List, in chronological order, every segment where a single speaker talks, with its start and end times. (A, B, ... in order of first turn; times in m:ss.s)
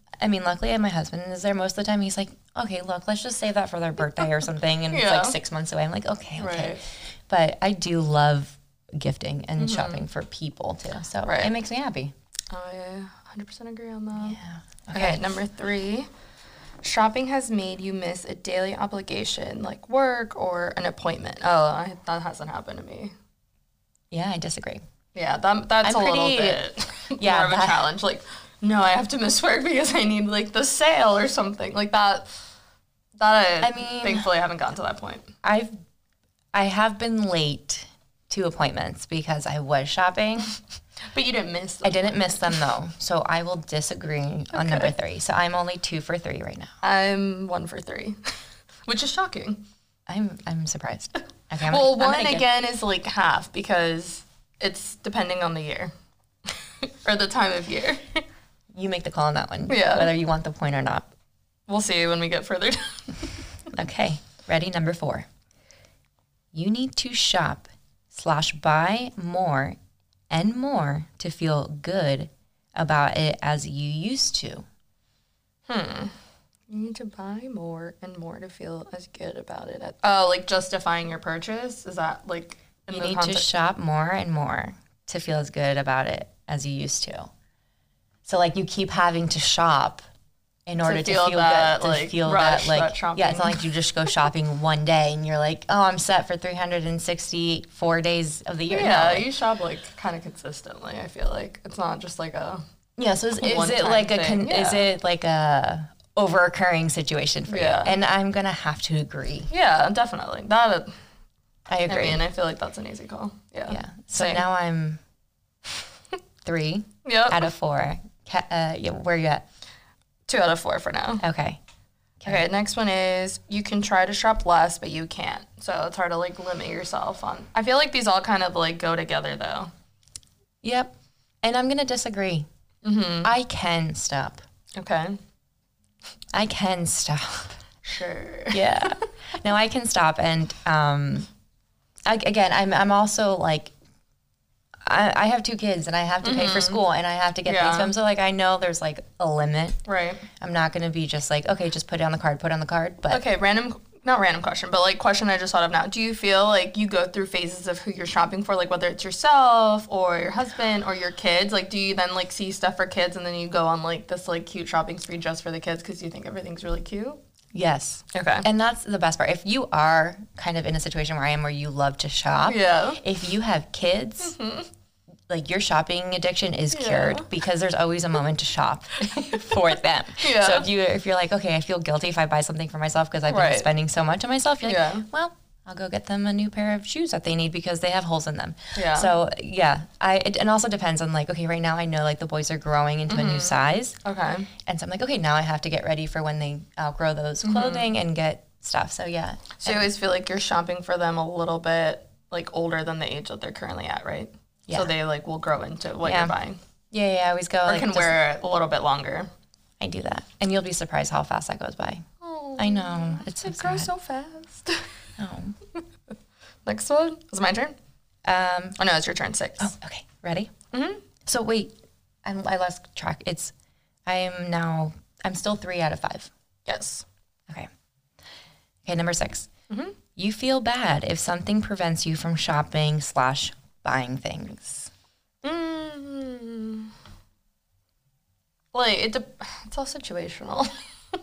0:00.2-0:12.1 A
0:04.9-0:05.4 B
0:06.4-0:06.8 B
0:09.6-0:10.0 B
0:11.2-0:11.5 B
0:12.5-0:14.4 B
0:14.2-0:15.3 A
0:14.9-0:16.1 B
0:16.8-0:23.1 B
0:24.1-0:24.8 A
0:25.2-0:32.3 B
0:25.8-0:26.6 A
0:27.2-0:27.8 A
0:33.2-0:35.3 B
0:33.6-0:34.3 A
0:35.4-0:35.8 A
0:36.5-0:40.6 A
0:41.1-0:42.2 B
0:41.8-0:46.7 A
0:44.5-0:44.9 B
0:46.8-0:48.3 B
0:48.9-0:49.6 B
0:50.1-0:52.5 A
0:51.7-0:55.9 B
0:57.0-0:58.2 B
0:58.7-1:01.1 A
0:59.7-1:00.1 B
1:01.7-1:03.4 B
1:03.7-1:05.3 A
1:06.5-1:09.8 A
1:10.3-1:14.7 A
1:15.7-1:16.1 B
1:16.7-1:23.5 B
1:22.9-1:27.3 A
1:28.2-1:30.0 A
1:30.7-1:39.3 A
1:30.8-1:33.7 B
1:38.7-1:42.6 B
1:43.0-1:49.5 A
1:43.4-1:44.9 B
1:47.5-1:48.0 B
1:49.5-1:50.9 B
1:51.7-1:52.2 A
1:51.9-1:54.4 B
1:53.7-1:55.0 A
1:56.4-1:59.4 A
1:57.0-1:57.5 B
2:00.3-2:01.2 B
2:01.2-2:01.6 A
2:02.2-2:09.7 B
2:10.6-2:12.5 A
2:12.8-2:13.3 B
2:13.2-2:14.4 A
2:14.8-2:15.2 B
2:16.3-2:17.6 A
2:17.8-2:19.0 B
2:18.5-2:21.3 A
2:22.1-2:23.7 A
2:24.8-2:29.8 A
2:26.2-2:26.8 B
2:27.5-2:27.9 B
2:29.9-2:30.2 B
2:30.4-2:33.2 A
2:33.1-2:47.2 B
2:47.5-2:54.4 A
2:48.1-2:48.4 B
2:52.5-2:53.0 B
2:54.2-2:54.7 B
2:55.3-3:14.0 A
2:56.7-2:57.3 B
2:59.3-2:59.6 B
3:00.2-3:00.7 B
3:03.3-3:03.7 B
3:04.6-3:05.1 B
3:08.8-3:09.1 B
3:13.1-3:14.5 B
3:14.6-3:19.9 A
3:17.4-3:17.9 B
3:19.6-3:26.6 B
3:26.0-3:26.3 A
3:26.9-3:28.2 A
3:27.7-3:29.3 B
3:29.8-3:32.1 A
3:32.2-3:34.8 B
3:32.6-3:33.9 A
3:35.2-3:35.6 A
3:36.7-3:37.8 B
3:38.2-3:38.8 A
3:38.8-3:39.7 B
3:39.6-3:40.5 A
3:40.7-3:41.0 B
3:41.2-3:41.7 A
3:42.2-3:43.5 A
3:44.1-3:46.3 A
3:46.7-3:47.0 B
3:48.8-3:49.5 A
3:49.7-3:50.0 B
3:50.2-3:54.9 A
3:55.4-3:56.9 B
3:58.7-4:00.7 B